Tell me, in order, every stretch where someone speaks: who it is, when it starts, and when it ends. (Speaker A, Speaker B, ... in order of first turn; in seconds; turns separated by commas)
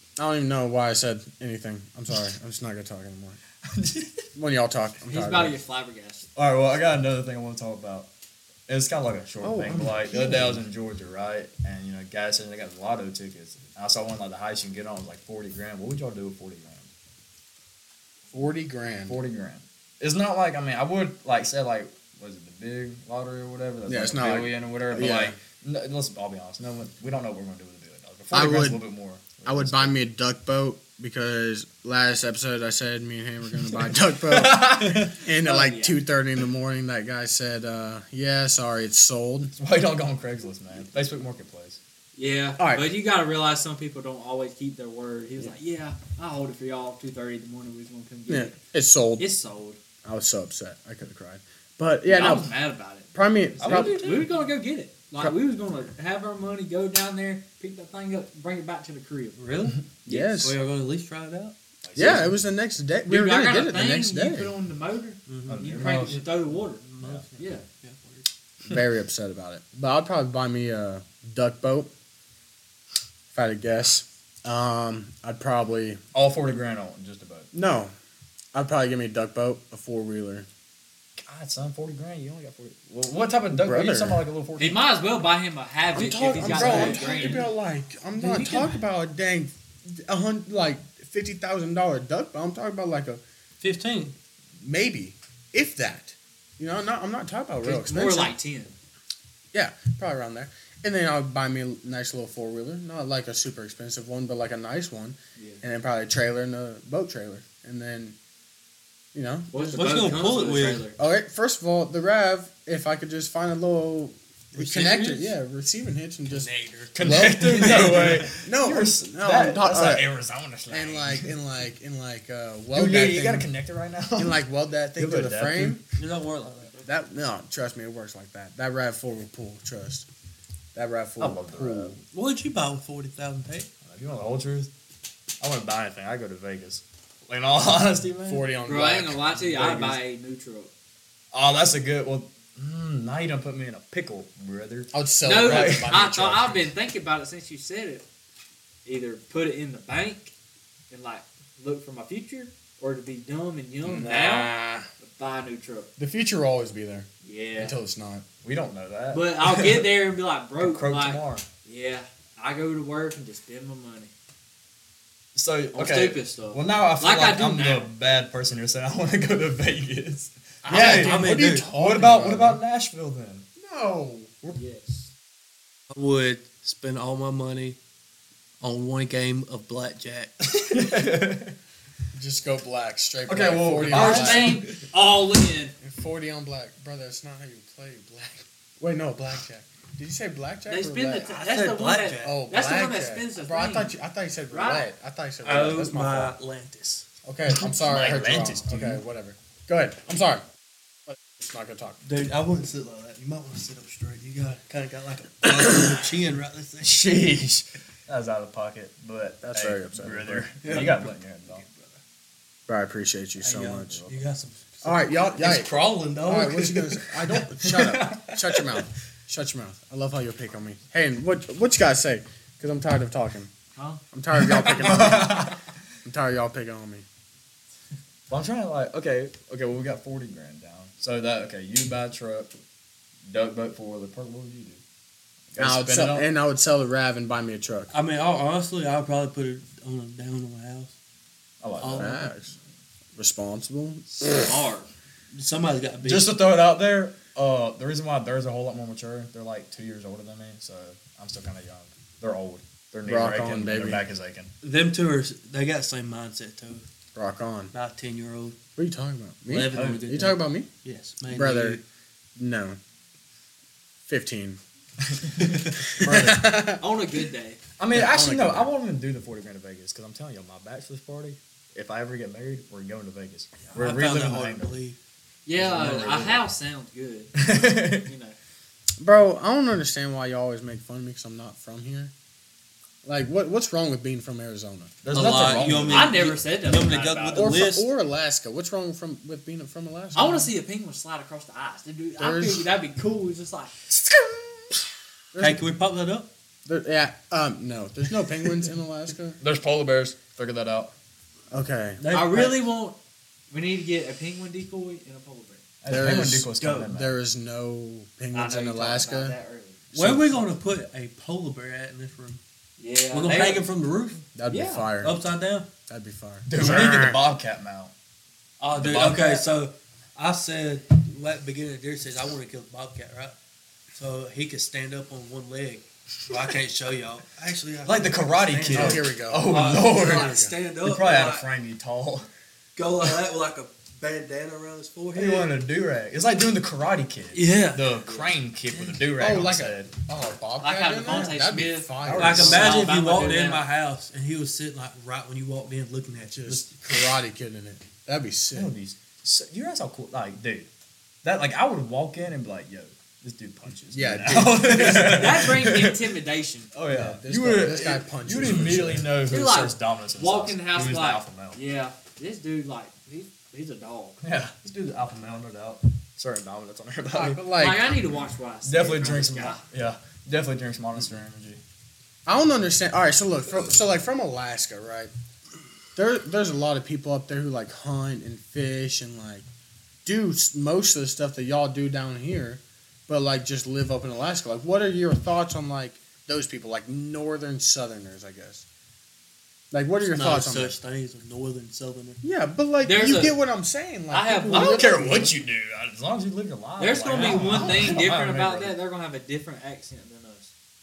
Speaker A: 0.2-3.4, Speaker B: 3.6-4.2, Speaker A: 4.3-5.5, Speaker C: 5.0-6.3, Speaker B: 6.3-8.1, Speaker B: 8.7-16.9, Speaker A: 9.4-10.6, Speaker A: 18.3-19.2, Speaker B: 19.1-30.0, Speaker A: 23.9-25.4, Speaker A: 28.3-28.8, Speaker A: 29.4-39.5, Speaker B: 33.7-35.2, Speaker C: 35.3-36.0, Speaker B: 39.5-41.8, Speaker C: 42.1-48.6, Speaker A: 42.6-42.9, Speaker A: 48.3-49.3, Speaker C: 49.2-49.8, Speaker A: 50.0-52.5, Speaker C: 52.1-59.5, Speaker A: 53.1-54.0, Speaker B: 53.6-54.3, Speaker D: 59.4-61.5, Speaker A: 60.0-60.6, Speaker B: 61.8-62.4, Speaker A: 62.0-64.5, Speaker C: 63.1-66.8, Speaker D: 65.3-68.3, Speaker B: 65.5-66.2, Speaker C: 67.4-67.6, Speaker A: 68.6-71.9, Speaker A: 73.3-76.0, Speaker B: 76.1-77.5, Speaker A: 77.5-77.9, Speaker A: 78.5-80.5, Speaker B: 81.2-84.8, Speaker A: 83.5-84.2, Speaker C: 84.6-87.5, Speaker A: 85.9-93.2, Speaker D: 86.4-87.5, Speaker B: 86.4-87.0, Speaker D: 88.2-88.8, Speaker D: 93.6-94.1, Speaker A: 94.6-98.3, Speaker C: 97.6-98.7, Speaker A: 99.5-108.2, Speaker C: 105.4-105.6, Speaker A: 109.1-109.8, Speaker C: 109.5-111.0, Speaker D: 109.7-110.9, Speaker A: 111.0-120.1, Speaker D: 114.5-115.3, Speaker D: 116.3-118.3, Speaker B: 116.9-121.3, Speaker A: 120.7-123.5, Speaker B: 122.7-124.4, Speaker A: 124.2-125.8, Speaker B: 125.0-125.8, Speaker D: 125.9-126.9, Speaker A: 126.8-130.1, Speaker A: 130.7-132.0, Speaker B: 131.2-132.0, Speaker D: 132.1-133.7, Speaker B: 133.8-134.7, Speaker B: 135.4-138.5, Speaker A: 138.2-139.9, Speaker C: 138.7-140.7, Speaker B: 141.3-145.9, Speaker A: 144.9-146.7, Speaker C: 145.2-148.0, Speaker C: 148.8-150.3, Speaker C: 150.9-155.9, Speaker A: 153.8-154.9, Speaker A: 156.0-158.2, Speaker C: 157.2-157.8, Speaker B: 158.4-160.0, Speaker C: 159.1-164.1, Speaker B: 160.6-161.4, Speaker B: 165.3-173.4, Speaker C: 165.7-167.9, Speaker A: 170.6-172.6, Speaker D: 170.7-171.7, Speaker A: 173.6-174.6, Speaker C: 174.5-175.1, Speaker D: 175.9-177.8, Speaker D: 178.6-180.8, Speaker B: 180.6-181.6, Speaker A: 182.1-184.6, Speaker B: 183.2-184.8, Speaker C: 183.8-185.7, Speaker A: 185.8-191.3, Speaker C: 190.7-193.9, Speaker D: 191.3-192.4, Speaker A: 192.2-196.3, Speaker C: 194.5-194.8, Speaker D: 195.4-197.1, Speaker A: 197.2-200.4, Speaker B: 197.5-199.0, Speaker A: 201.1-202.0, Speaker D: 202.0-207.0, Speaker B: 205.5-206.0, Speaker B: 206.8-211.6, Speaker A: 209.4-210.8, Speaker D: 210.6-212.0, Speaker A: 212.7-214.1, Speaker D: 213.4-217.1, Speaker A: 214.8-223.5, Speaker B: 217.6-218.3, Speaker C: 223.7-224.0, Speaker A: 224.1-227.0, Speaker B: 224.4-225.6, Speaker B: 228.3-232.5, Speaker B: 233.3-234.8, Speaker B: 235.5-236.3, Speaker A: 235.6-237.9, Speaker D: 237.9-240.9, Speaker B: 241.6-242.2, Speaker D: 241.8-242.3, Speaker A: 241.9-242.5, Speaker A: 243.2-244.5, Speaker D: 244.5-246.3, Speaker B: 246.0-254.5, Speaker A: 253.0-254.0, Speaker D: 254.6-256.9, Speaker A: 257.1-257.7, Speaker D: 257.7-258.6, Speaker A: 258.8-260.7, Speaker D: 259.5-261.8, Speaker B: 259.7-260.0, Speaker A: 261.2-261.8, Speaker A: 262.4-262.8, Speaker A: 264.1-264.6, Speaker B: 265.0-266.5, Speaker A: 265.8-266.8, Speaker C: 266.7-267.6, Speaker B: 267.8-274.8, Speaker A: 267.9-268.7, Speaker D: 273.6-274.9, Speaker C: 275.4-278.4, Speaker B: 275.5-276.5, Speaker B: 277.4-278.1, Speaker A: 279.0-282.1, Speaker A: 283.0-285.9, Speaker B: 285.0-286.3, Speaker D: 285.1-287.9, Speaker C: 285.9-287.6, Speaker A: 287.3-290.5, Speaker C: 290.1-293.8, Speaker A: 292.2-292.7, Speaker B: 293.9-294.8, Speaker A: 295.3-295.7, Speaker D: 295.4-296.3, Speaker A: 296.6-299.4, Speaker B: 299.4-300.9, Speaker A: 301.5-302.0, Speaker D: 302.0-302.6, Speaker C: 302.0-303.0, Speaker C: 303.5-305.6, Speaker B: 305.8-307.1, Speaker A: 305.9-309.3, Speaker D: 306.6-306.9, Speaker C: 308.3-309.9, Speaker D: 309.9-312.4, Speaker A: 309.9-310.4, Speaker C: 312.8-313.7, Speaker D: 313.1-314.3, Speaker A: 314.3-315.1, Speaker C: 314.5-314.9, Speaker D: 315.0-315.7, Speaker A: 315.9-317.2, Speaker B: 316.4-317.9, Speaker D: 318.6-323.4, Speaker B: 318.7-319.5, Speaker D: 323.9-331.5, Speaker B: 327.8-332.3, Speaker A: 328.7-330.6, Speaker D: 332.8-335.5, Speaker B: 335.1-339.9, Speaker D: 337.3-338.4, Speaker A: 339.1-342.7, Speaker C: 340.6-343.6, Speaker B: 342.0-342.8, Speaker D: 342.1-346.9, Speaker A: 346.3-348.7, Speaker B: 348.5-350.7, Speaker B: 351.2-356.1, Speaker A: 353.9-355.5, Speaker C: 354.8-356.7, Speaker B: 356.7-361.6, Speaker A: 356.9-359.1, Speaker C: 359.3-364.2, Speaker B: 364.2-367.4, Speaker A: 367.1-368.0, Speaker C: 367.6-369.6, Speaker B: 368.6-371.6, Speaker A: 372.2-375.1, Speaker A: 375.9-379.4, Speaker A: 380.0-388.6, Speaker A: 389.7-390.8, Speaker D: 390.1-392.2, Speaker A: 392.2-395.3, Speaker C: 392.8-393.4, Speaker C: 394.1-394.9, Speaker B: 394.5-398.8, Speaker C: 396.8-400.5, Speaker A: 397.1-397.9, Speaker D: 397.2-397.5